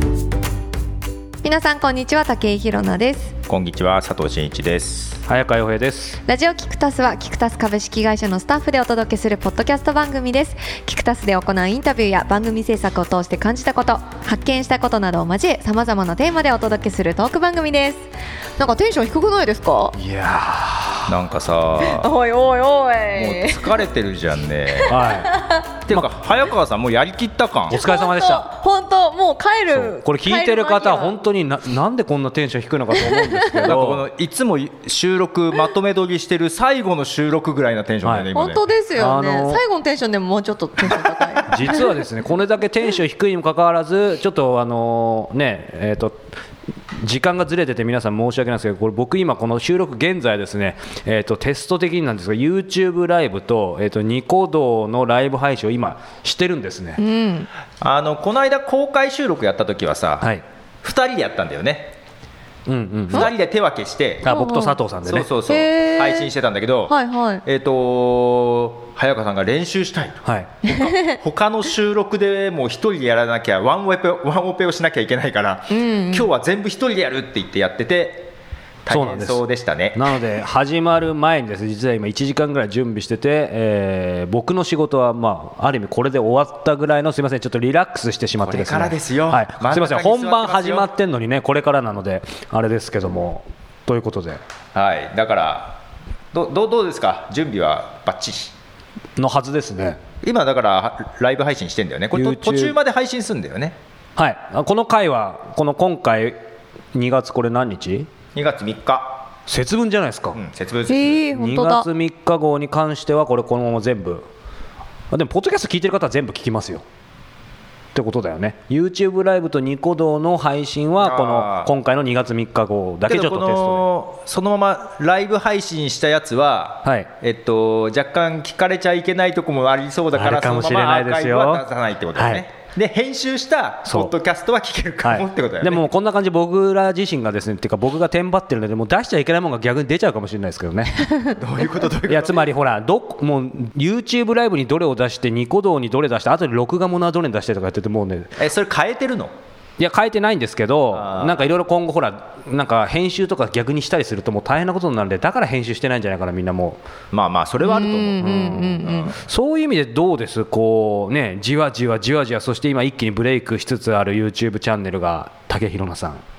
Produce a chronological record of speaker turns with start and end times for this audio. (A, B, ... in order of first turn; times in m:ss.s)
0:01.4-0:03.4 A
0:03.5-0:05.2 B
0:05.3-0:06.2 C
0:06.3-0:20.0 A
0:20.0-0:21.2 C
0:21.1-0:22.1 B
0:21.8-0:23.8 A
0:23.2-0:25.0 B
0:24.7-0:25.8 A
0:24.9-0:25.3 C
0:25.9-0:27.8 B
0:27.7-0:28.5 C
0:27.7-0:31.2 A
0:29.7-0:34.0 C
0:33.0-0:33.6 A
0:33.6-0:38.6 B
0:38.0-0:38.3 C
0:38.3-0:42.0 A
0:39.0-0:39.6 C
0:41.5-0:46.2 C
0:47.0-0:57.0 C
0:57.0-0:57.5 A
0:57.8-1:00.3 B
1:00.8-1:02.0 B
1:02.7-1:03.3 C
1:03.1-1:04.3 B
1:04.2-1:05.3 C
1:04.3-1:04.8 A
1:05.1-1:18.3 B
1:05.5-1:06.3 A
1:06.9-1:07.4 A
1:10.2-1:10.5 C
1:10.6-1:11.2 A
1:15.7-1:16.3 A
1:18.8-1:20.2 B
1:18.9-1:19.4 C
1:19.9-1:34.4 C
1:28.4-1:30.9 B
1:34.7-1:35.8 B
1:36.3-1:38.5 B
1:39.2-1:40.0 C
1:40.2-1:43.8 B
1:42.1-1:42.8 C
1:44.2-1:46.4 C
1:46.9-1:48.1 C
1:48.4-1:49.3 B
1:49.5-1:50.4 C
1:50.4-1:51.2 B
1:50.9-1:51.9 A
1:51.3-1:54.3 C
1:55.1-1:56.8 C
1:57.9-2:03.9 C
2:01.0-2:01.7 B
2:03.1-2:15.8 B
2:06.8-2:07.1 C
2:10.1-2:11.6 C
2:12.2-2:12.4 C
2:13.9-2:14.1 C
2:15.0-2:21.1 C
2:21.4-2:22.4 B
2:22.1-2:28.4 C
2:28.4-2:29.3 B
2:29.8-2:36.8 C
2:30.9-2:31.4 B
2:37.1-2:38.3 B
2:37.6-2:39.1 A
2:38.2-2:46.2 C
2:38.8-2:39.1 B